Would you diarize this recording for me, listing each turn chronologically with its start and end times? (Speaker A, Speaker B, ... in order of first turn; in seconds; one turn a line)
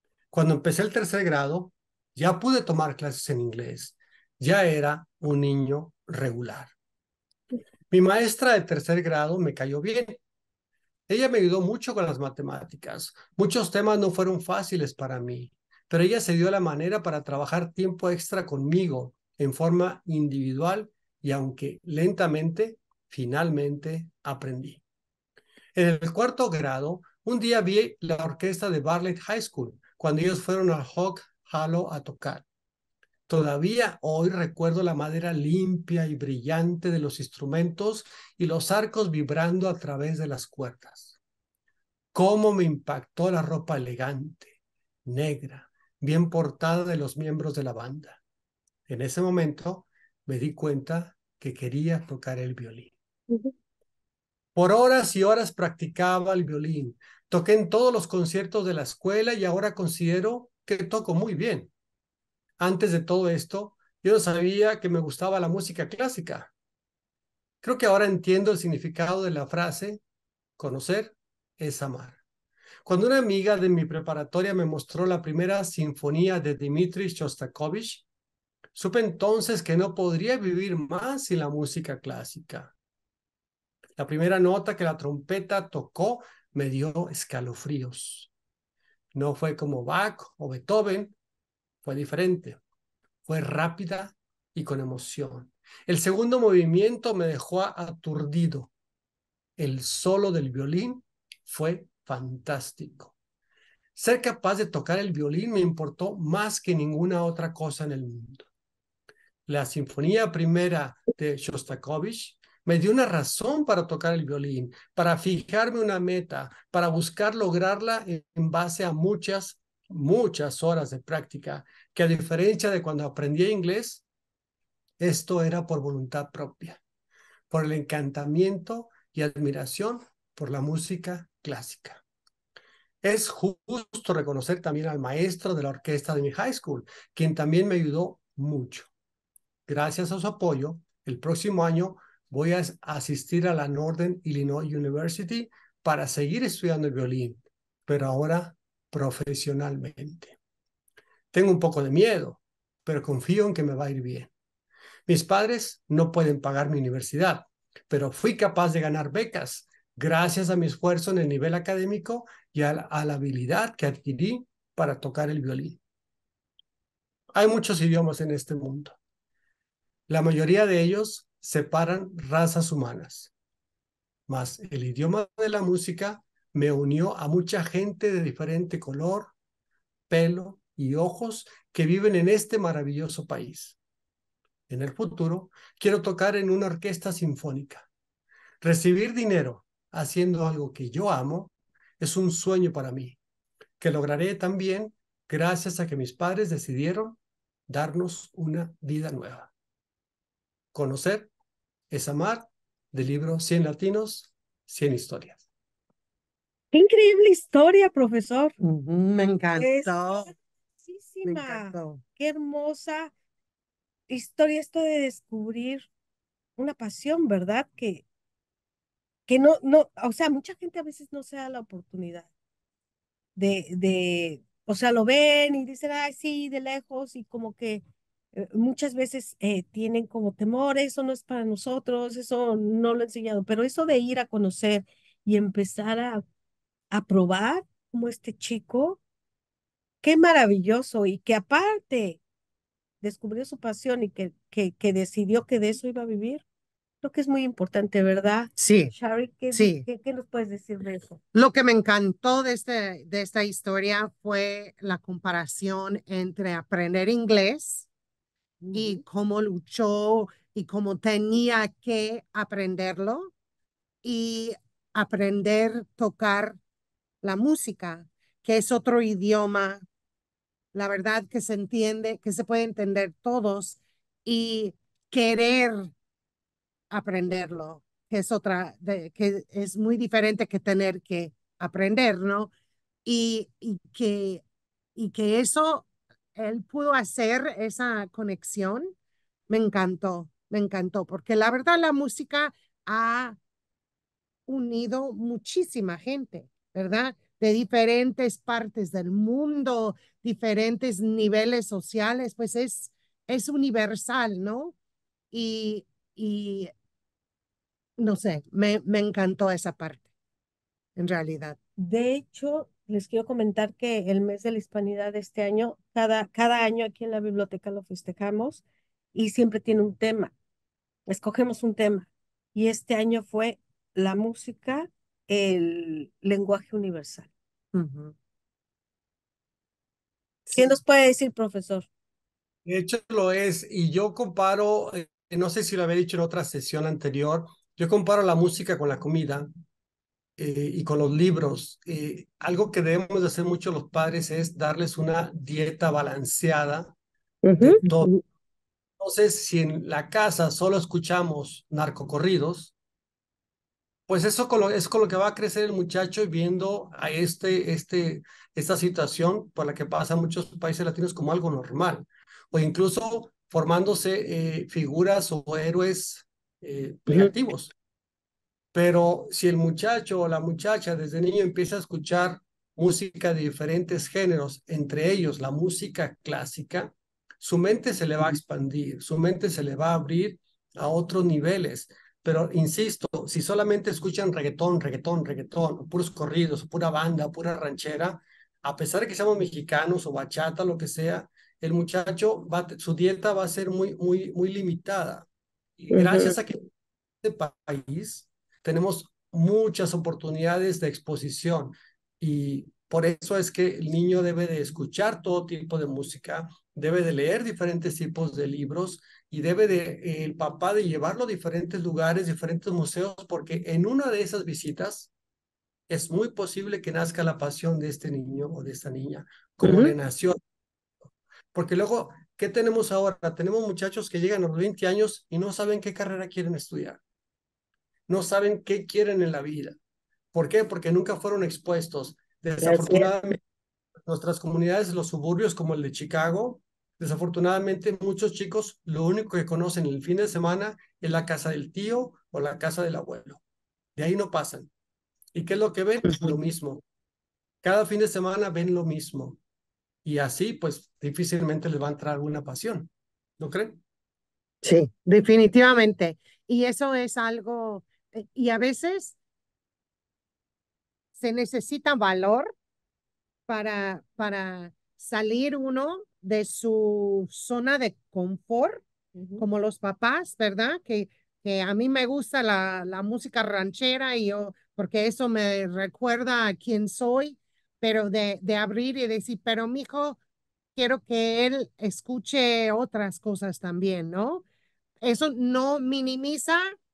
Speaker A: 0.3-6.7
Speaker A: 7.9-10.2
Speaker A: 11.1-24.8
Speaker A: 25.8-32.5
Speaker A: 33.3-41.2
Speaker A: 42.1-48.2
Speaker A: 48.9-52.9
Speaker A: 54.5-61.7
Speaker A: 62.6-66.5
Speaker A: 67.6-70.0
Speaker A: 70.6-72.2
Speaker A: 72.8-78.1
Speaker A: 78.7-82.7
Speaker A: 84.0-88.3
Speaker A: 89.1-91.2
Speaker A: 91.8-92.6
Speaker A: 93.3-98.7
Speaker A: 99.6-103.1
Speaker A: 104.0-108.5
Speaker A: 109.5-124.0
Speaker A: 125.0-126.8
Speaker A: 127.5-132.0
Speaker A: 133.0-138.9
Speaker A: 139.7-150.4
Speaker A: 151.3-154.3
Speaker A: 155.1-165.8
Speaker A: 167.3-169.0
Speaker A: 170.1-173.3
Speaker A: 174.3-179.3
Speaker A: 180.1-183.8
Speaker A: 184.7-187.9
Speaker A: 188.6-193.2
Speaker A: 193.8-199.5
Speaker A: 200.7-201.3
Speaker A: 201.9-205.4
Speaker B: 206.7-208.6
Speaker C: 208.6-210.3
Speaker B: 209.6-209.9
Speaker B: 210.8-213.1
Speaker C: 211.2-212.0
Speaker B: 214.1-215.9
Speaker B: 216.6-218.1
Speaker B: 219.3-222.3
Speaker B: 223.4-236.2
Speaker B: 236.9-239.0
Speaker B: 240.0-242.2
Speaker B: 243.0-246.4
Speaker B: 247.0-251.2
Speaker C: 248.6-248.9
Speaker C: 249.5-249.8
Speaker C: 251.3-257.9
Speaker B: 258.6-259.0
Speaker C: 258.7-263.3
Speaker C: 264.0-266.6
Speaker C: 267.2-269.8
Speaker C: 270.7-275.9
Speaker C: 276.9-282.5
Speaker C: 283.1-284.4
Speaker C: 285.0-288.9
Speaker C: 289.5-293.4
Speaker C: 294.5-304.7
Speaker C: 305.3-306.7
Speaker C: 308.0-310.1
Speaker C: 311.0-311.6
Speaker B: 311.8-318.6
Speaker B: 319.1-320.3
Speaker B: 321.1-327.3
Speaker C: 327.7-328.1
Speaker C: 330.5-330.7
Speaker B: 330.6-331.9
Speaker A: 332.7-339.5
Speaker A: 340.4-346.9
Speaker C: 347.4-347.8
Speaker A: 347.6-348.1
Speaker A: 349.0-352.7
Speaker A: 354.1-367.7
Speaker A: 368.7-395.3
Speaker A: 395.8-396.7
Speaker C: 395.9-396.3
Speaker A: 397.2-415.1
Speaker A: 415.9-420.4
Speaker C: 419.6-419.9
Speaker A: 421.5-427.0
Speaker A: 428.1-429.8
Speaker A: 430.3-433.4
Speaker B: 432.6-433.1
Speaker A: 434.1-443.4
Speaker A: 444.0-444.7
Speaker A: 445.3-446.8
Speaker A: 447.6-449.4
Speaker A: 450.0-453.8
Speaker C: 454.6-459.2
Speaker C: 461.1-462.5
Speaker C: 463.5-468.8
Speaker B: 469.1-469.4
Speaker C: 469.4-480.2
Speaker C: 480.8-484.4
Speaker C: 485.0-486.6